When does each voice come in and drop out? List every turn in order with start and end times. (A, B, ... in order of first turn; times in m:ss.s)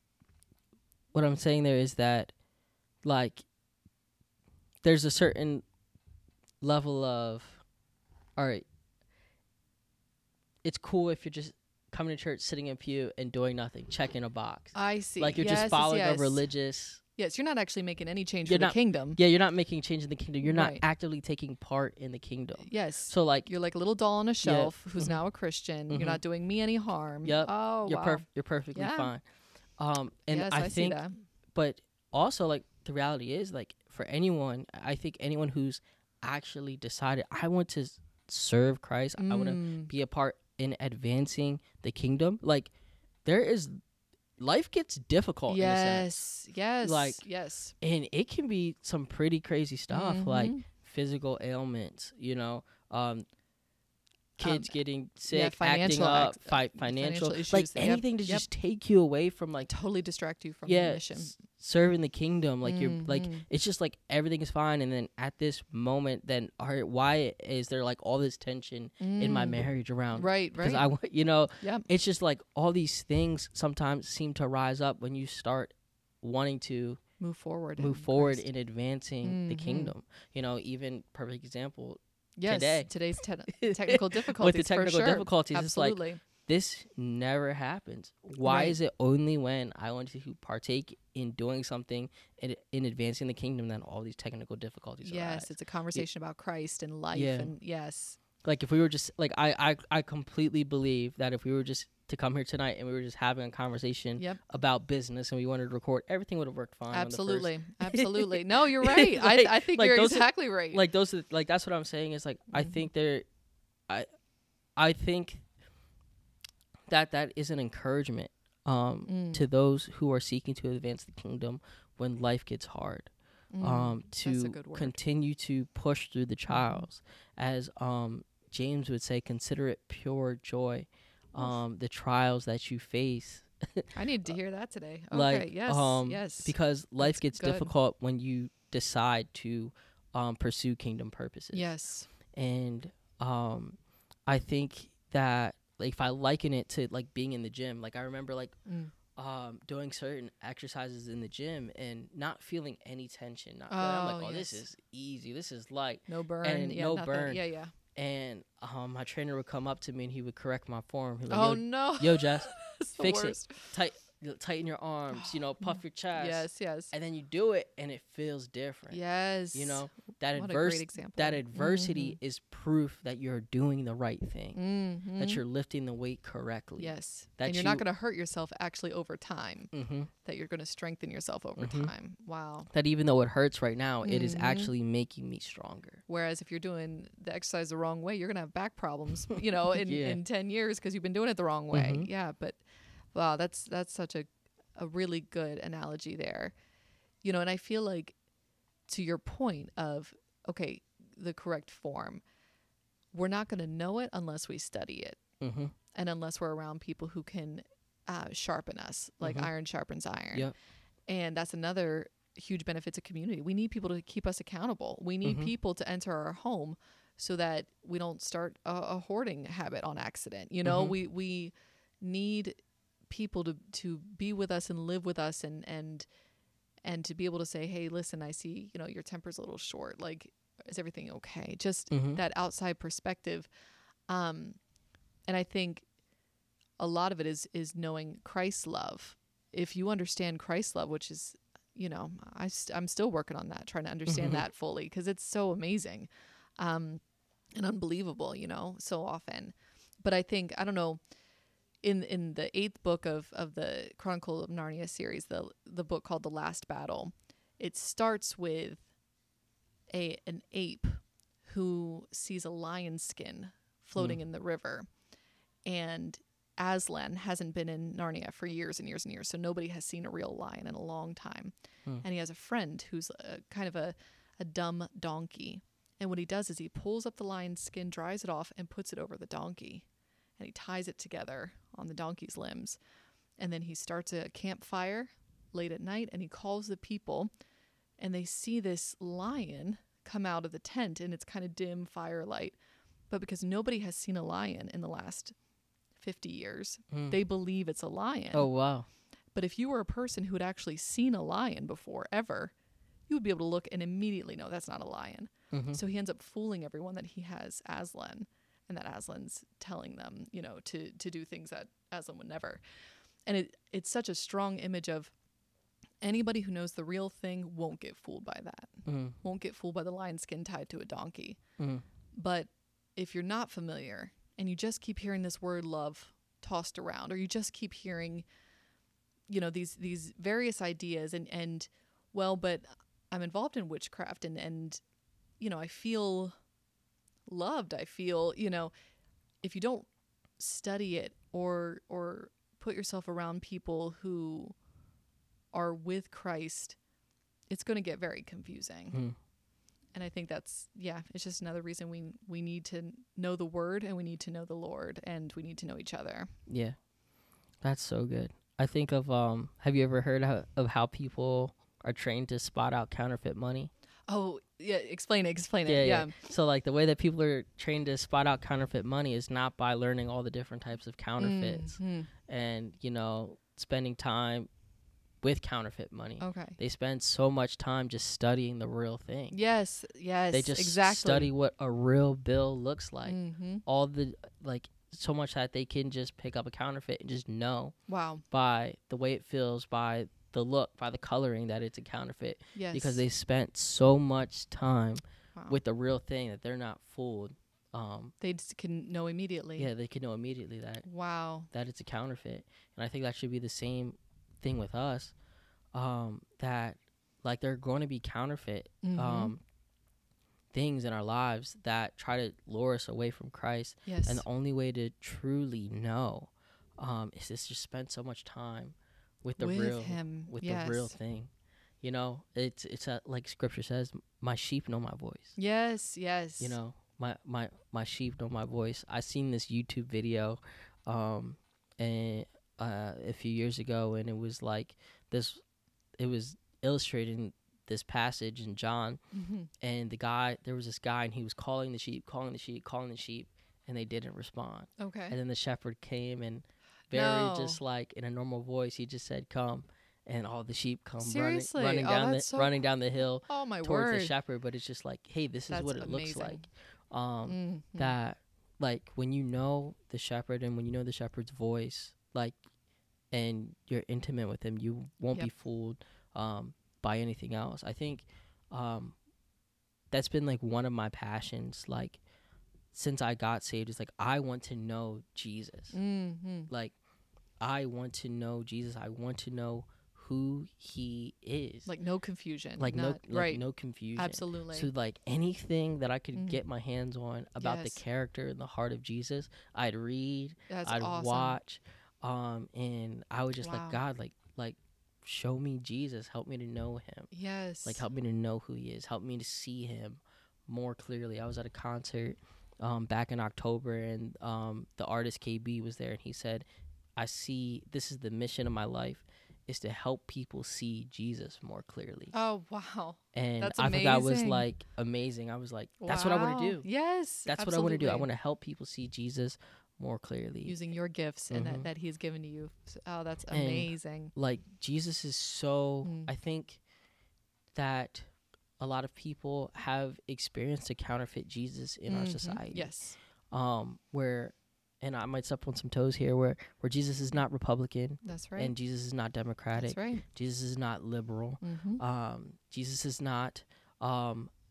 0:01.1-0:02.3 A
0:03.0-0:03.5 A
0:04.8-0:05.6 A
0:06.6-0:07.6 A
0:08.4-0:08.6 A
0:10.6-0:17.0 A
0:14.7-0:16.4 B
0:17.2-0:19.2 B
0:18.5-0:23.5 A
0:20.4-0:20.8 B
0:22.6-0:29.1 B
0:24.4-0:25.2 A
0:25.9-0:26.2 A
0:27.2-0:29.2 A
0:29.8-0:31.0 A
0:30.3-0:31.2 B
0:31.6-0:42.7 A
0:39.2-0:39.9 B
0:43.2-0:43.8 A
0:44.4-0:46.1 A
0:45.5-0:47.8 B
0:46.8-0:47.2 A
0:47.8-0:53.2 A
0:49.9-0:50.6 B
0:54.4-0:59.7 A
0:54.4-0:54.7 B
0:55.3-0:58.4 B
0:59.7-1:01.3 B
1:00.7-1:17.0 A
1:02.6-1:03.4 B
1:09.0-1:10.9 B
1:11.6-1:11.9 B
1:17.2-1:18.4 B
1:17.8-1:22.9 A
1:19.2-1:19.9 B
1:22.4-1:26.2 B
1:23.5-1:36.0 A
1:28.4-1:28.8 B
1:35.0-1:38.2 B
1:37.1-1:37.5 A
1:38.4-1:53.2 A
1:44.2-1:44.4 B
1:46.9-1:50.8 B
1:52.5-1:52.8 B
1:54.8-1:55.4 A
1:56.9-2:14.0 A
1:59.1-1:59.4 B
2:03.5-2:05.0 B
2:06.5-2:06.9 B
2:13.9-2:17.7 B
2:15.1-2:21.7 A
2:21.5-2:22.1 B
2:22.3-2:28.6 A
2:28.7-2:28.9 B
2:29.2-2:37.4 A
2:33.7-2:34.6 B
2:36.1-2:37.7 B
2:37.9-2:49.0 A
2:41.3-2:43.7 B
2:45.1-2:46.9 B
2:48.9-2:52.2 B
2:49.5-2:54.6 A
2:54.6-2:55.4 B
2:55.2-2:57.8 A
2:56.8-3:02.7 B
2:59.7-3:00.1 A
3:01.6-3:01.9 A
3:02.7-3:06.0 A
3:04.0-3:04.7 B
3:06.1-3:12.6 B
3:09.7-3:10.2 A
3:11.7-3:12.1 A
3:13.1-3:16.6 B
3:17.2-3:18.2 B
3:18.9-3:22.2 B
3:23.1-3:25.2 B
3:25.4-3:25.7 A
3:25.9-3:30.5 B
3:29.2-3:29.5 A
3:31.1-3:46.1 B
3:35.2-3:35.5 A
3:40.6-3:41.0 A
3:46.8-3:53.5 B
3:51.9-3:52.2 A
3:54.1-3:54.6 B
3:55.3-3:55.9 B
3:56.8-4:07.0 B
4:04.1-4:04.4 A
4:07.6-4:11.0 B
4:11.8-4:18.9 B
4:19.9-4:24.9 B
4:25.6-4:39.9 B
4:40.4-4:42.8 B
4:43.4-4:47.3 B
4:48.0-4:52.6 B
4:53.1-4:55.4 B
4:56.0-4:58.5 B
4:56.9-4:57.2 A
4:58.3-4:58.9 A
4:59.3-5:02.5 B
5:03.1-5:12.6 B
5:05.5-5:05.8 A
5:13.3-5:15.1 B
5:16.0-5:21.4 B
5:18.9-5:19.2 A
5:21.6-5:21.8 A
5:22.2-5:28.3 B
5:29.3-5:34.8 B
5:35.4-5:36.3 B
5:37.3-5:38.7 B
5:39.4-5:44.6 B
5:45.5-5:46.8 B
5:47.5-5:49.0 B
5:49.9-5:56.3 B
5:56.5-5:56.8 A
5:57.6-6:03.7 A
6:04.1-6:06.2 B
6:05.7-6:14.5 A
6:11.2-6:12.1 B
6:15.2-6:19.4 A
6:16.2-6:16.6 B
6:19.3-6:21.3 B
6:20.3-6:27.8 A
6:23.0-6:23.6 B
6:27.9-6:28.2 B
6:28.3-6:38.1 A
6:32.6-6:33.0 B
6:35.4-6:35.6 B
6:38.2-6:39.7 B
6:39.6-6:40.9 A
6:40.8-6:41.5 B
6:41.5-6:45.1 A
6:45.7-6:49.4 A
6:48.8-6:49.3 B
6:50.5-7:05.4 A
6:53.9-6:54.3 B
6:59.4-7:01.0 B
7:05.4-7:06.6 B
7:06.4-7:15.4 A
7:16.0-7:19.0 A
7:19.1-7:19.5 B
7:19.6-7:42.4 A
7:24.8-7:25.2 B
7:26.9-7:27.6 B
7:31.0-7:32.6 B
7:33.3-7:34.1 B
7:35.5-7:36.5 B
7:37.3-7:38.0 B
7:43.1-7:49.0 A
7:49.9-7:52.0 A
7:52.7-7:55.8 A
7:55.7-7:56.5 B
7:56.5-7:56.8 A
7:57.4-8:01.7 A
8:01.7-8:03.4 B
8:02.6-8:17.1 A
8:04.0-8:04.7 B
8:06.2-8:06.4 B
8:07.4-8:07.8 B
8:10.5-8:11.4 B
8:13.4-8:13.8 B
8:17.1-8:17.8 B
8:17.6-8:26.5 A
8:27.0-8:32.1 A
8:32.1-8:34.5 B
8:33.1-8:36.6 A
8:35.8-8:38.1 B
8:37.3-8:40.6 A
8:40.4-8:44.1 B
8:41.3-8:41.7 A
8:43.3-8:46.6 A
8:45.8-8:46.1 B
8:47.6-8:52.7 A
8:51.9-8:53.0 B
8:53.3-9:04.3 A
8:58.0-8:58.5 B
8:59.5-9:00.0 B
9:01.4-9:01.8 B